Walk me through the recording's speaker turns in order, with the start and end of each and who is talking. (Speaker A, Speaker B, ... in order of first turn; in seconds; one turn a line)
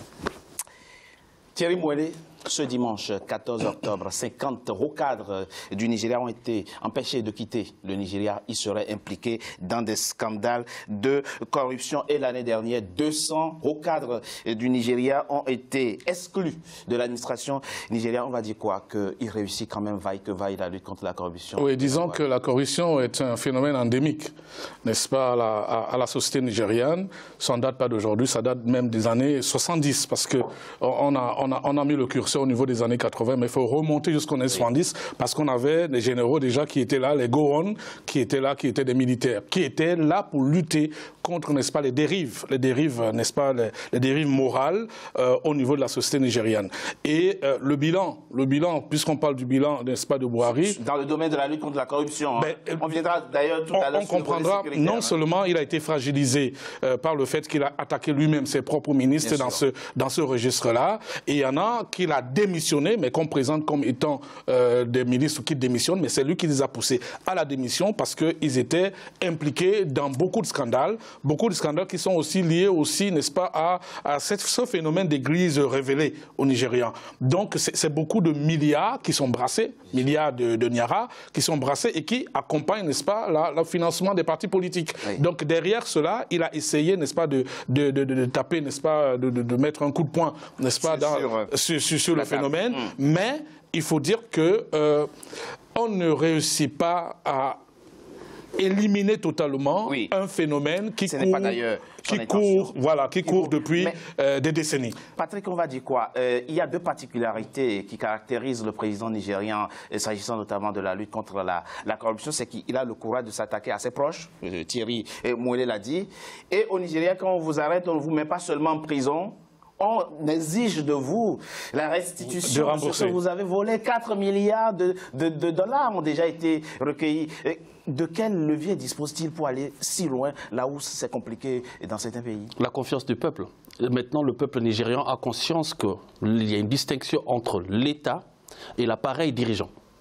Speaker A: 1.6-22.2
Speaker B: 21.6-24.3
Speaker B: 24.8-50.8
Speaker A: 50.4-55.1
Speaker B: 52.4-52.9
Speaker B: 53.7-95.1
Speaker A: 59.2-59.6
Speaker A: 90.8-91.5
Speaker A: 92.1-92.9
Speaker B: 95.8-97.6
Speaker B: 98.6-105.0
Speaker A: 99.9-100.1
Speaker A: 101.0-104.0
Speaker A: 105.2-132.5
Speaker B: 122.4-123.2
Speaker C: 132.6-138.2
Speaker C: 138.8-139.7